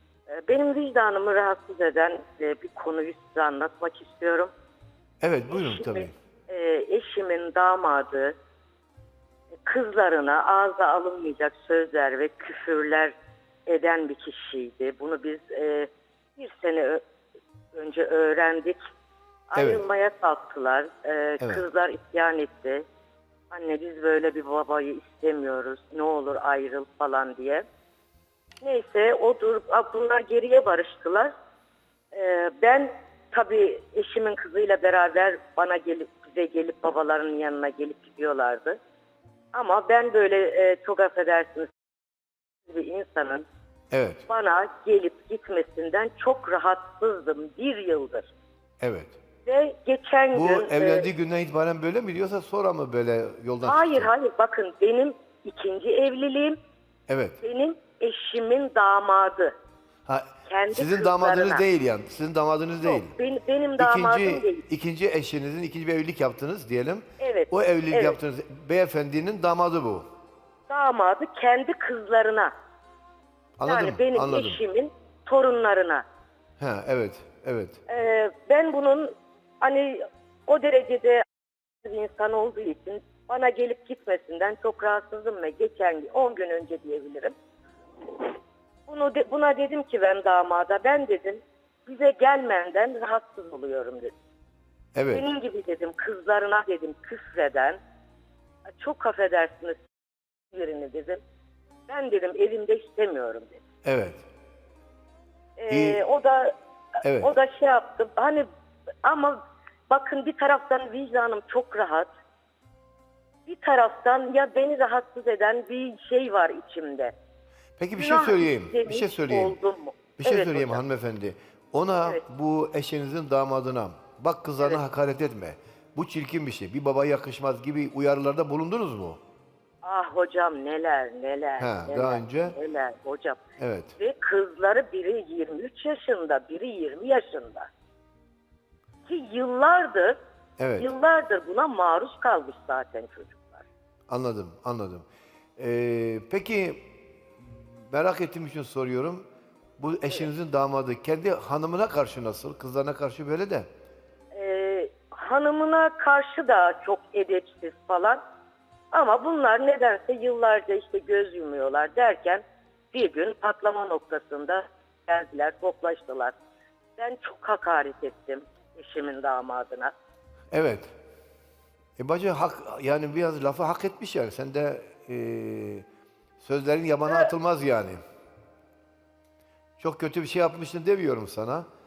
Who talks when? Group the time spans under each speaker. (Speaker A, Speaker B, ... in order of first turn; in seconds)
Speaker A: 0.3-4.5, 5.5-8.3, 9.7-13.1, 13.7-17.0, 17.7-18.8, 19.5-22.8, 23.5-27.6, 28.6-31.3, 32.1-38.8, 39.5-41.7, 42.6-43.4, 44.3-48.3, 49.4-51.1, 53.6-56.6, 57.4-59.5, 60.5-61.6, 62.8-64.6, 67.2-68.2, 70.7-72.5, 73.6-76.0, 77.9-81.2, 81.8-87.3, 88.9-94.1, 95.1-97.8, 98.8-99.9, 100.5-101.2, 101.9-103.6, 105.6-106.5, 107.2-108.5, 109.0-112.1, 113.5-117.1, 118.0-120.8, 129.8-133.4, 134.0-137.7, 139.1-140.2, 140.8-143.7, 154.3-158.2, 158.9-166.3, 167.0-169.9
Speaker B: 5.2-6.1, 19.5-19.8, 43.9-44.2, 48.8-49.1, 50.3-54.1, 57.1-57.4, 60.0-63.1, 63.8-70.0, 73.6-74.6, 76.6-77.8, 94.9-95.2, 103.8-104.2, 105.7-106.0, 107.0-107.3, 117.8-119.6, 120.2-129.2, 131.6-132.5, 133.6-133.9, 140.6-140.9, 144.1-145.1, 145.6-146.8, 147.4-149.2, 149.8-153.7, 170.5-170.9, 172.0-175.8, 176.4-178.0, 179.8-181.7